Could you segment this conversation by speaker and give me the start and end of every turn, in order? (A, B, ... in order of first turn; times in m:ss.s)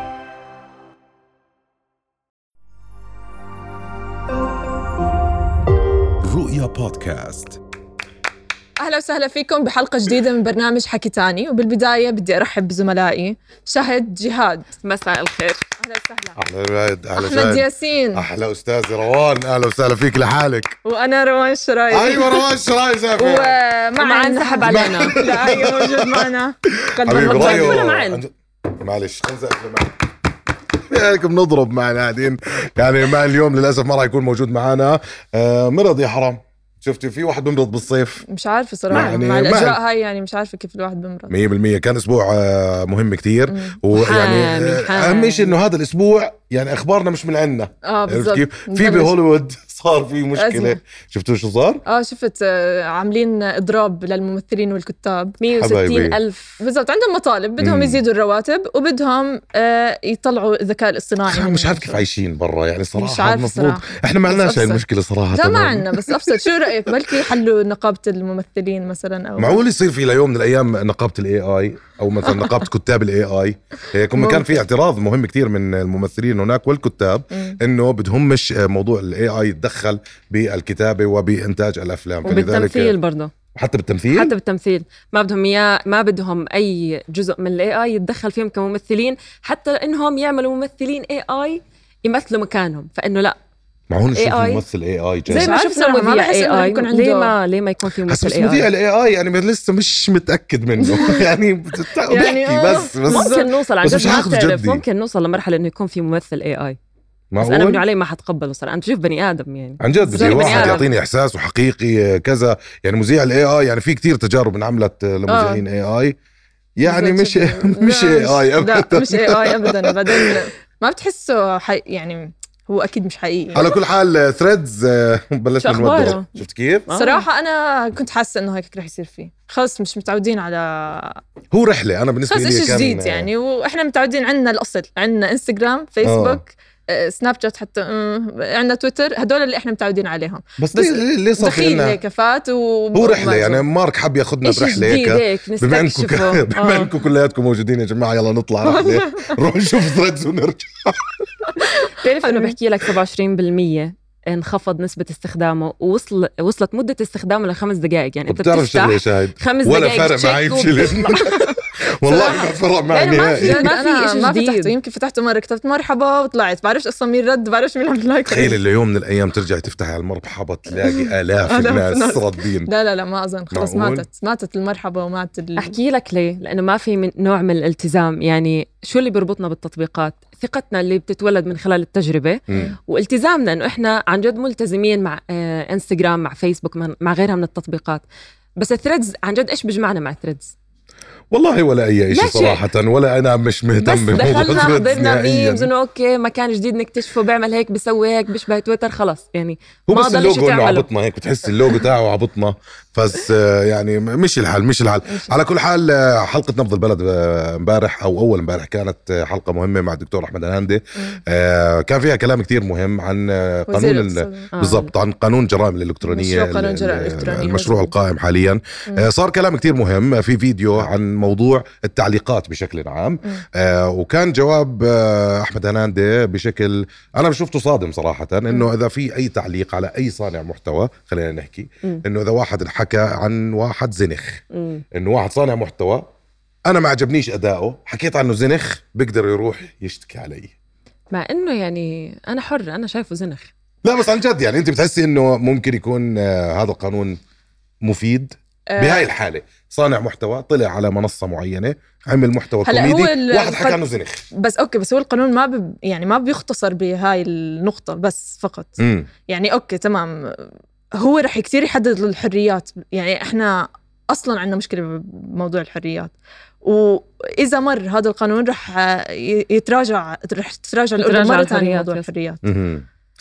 0:06.2-0:07.6 A
0:08.8-0:14.7 B
0:14.8-0:15.6 C
0:15.8-0:16.4 B
0:16.4-0:20.8 A
0:17.2-0:18.3 B
0:20.8-0:22.5 B
0:21.9-0:23.6 A
0:23.2-0:28.0 B
0:24.0-0:25.2 C
0:24.6-0:26.2 A
0:27.0-0:29.9 A
0:27.1-0:28.2 C
0:30.9-0:38.2 A
0:38.3-0:41.3 B
0:38.9-0:39.8 A
0:38.9-0:39.2 C
0:41.3-0:51.8 A
0:43.5-0:43.8 B
0:43.9-0:45.6 C
0:47.8-0:49.2 B
0:50.3-0:50.8 B
0:51.8-0:55.4 B
0:55.4-0:56.6 C
0:55.6-0:56.2 A
0:56.6-1:02.0 B
0:57.6-0:58.0 A
1:01.3-1:06.3 A
1:02.9-1:09.6 B
1:09.4-1:23.0 A
1:14.2-1:14.5 B
1:22.2-1:23.3 C
1:23.5-1:24.3 A
1:24.1-1:33.4 C
1:33.9-1:35.6 A
1:34.1-1:34.7 C
1:35.3-1:37.4 B
1:35.3-1:38.7 C
1:38.0-1:44.8 A
1:40.8-1:41.2 B
1:42.1-1:43.5 B
1:42.9-1:46.8 C
1:47.3-1:47.8 A
1:47.4-1:50.9 C
1:49.8-1:56.2 A
1:50.0-1:50.8 B
1:55.3-1:55.7 B
1:56.8-2:00.4 A
1:56.8-2:03.7 B
2:03.6-2:06.9 A
2:05.6-2:06.3 C
2:06.9-2:07.2 C
2:06.9-2:11.2 B
2:11.5-2:13.3 A
2:12.2-2:23.7 B
2:16.0-2:16.4 A
2:20.6-2:22.0 A
2:23.0-2:31.2 A
2:24.4-2:26.8 C
2:28.6-2:29.4 B
2:32.0-2:41.6 C
2:32.3-2:32.5 B
2:38.3-2:43.8 A
2:42.1-2:42.5 B
2:42.9-2:44.8 C
2:43.4-2:48.6 B
2:48.3-2:52.7 A
2:50.8-2:55.8 B
2:53.5-2:54.1 A
2:55.6-3:08.0 C
3:02.5-3:02.7 A
3:08.6-3:10.5 C
3:11.3-3:15.7 A
3:12.1-3:12.7 C
3:13.8-3:20.9 C
3:19.9-3:54.4 A
3:21.4-3:21.8 C
3:25.0-3:25.4 B
3:33.7-3:34.5 B
3:34.5-3:34.9 C
3:36.0-3:37.9 B
3:54.5-3:54.8 C
3:54.9-3:56.1 A
3:56.7-4:00.5 A
4:01.1-4:03.5 C
4:03.8-4:07.2 A
4:07.8-4:14.2 A
4:08.7-4:09.1 B
4:12.6-4:13.8 B
4:14.4-4:32.4 B
4:18.8-4:19.1 A
4:31.0-4:32.1 C
4:32.4-4:32.8 A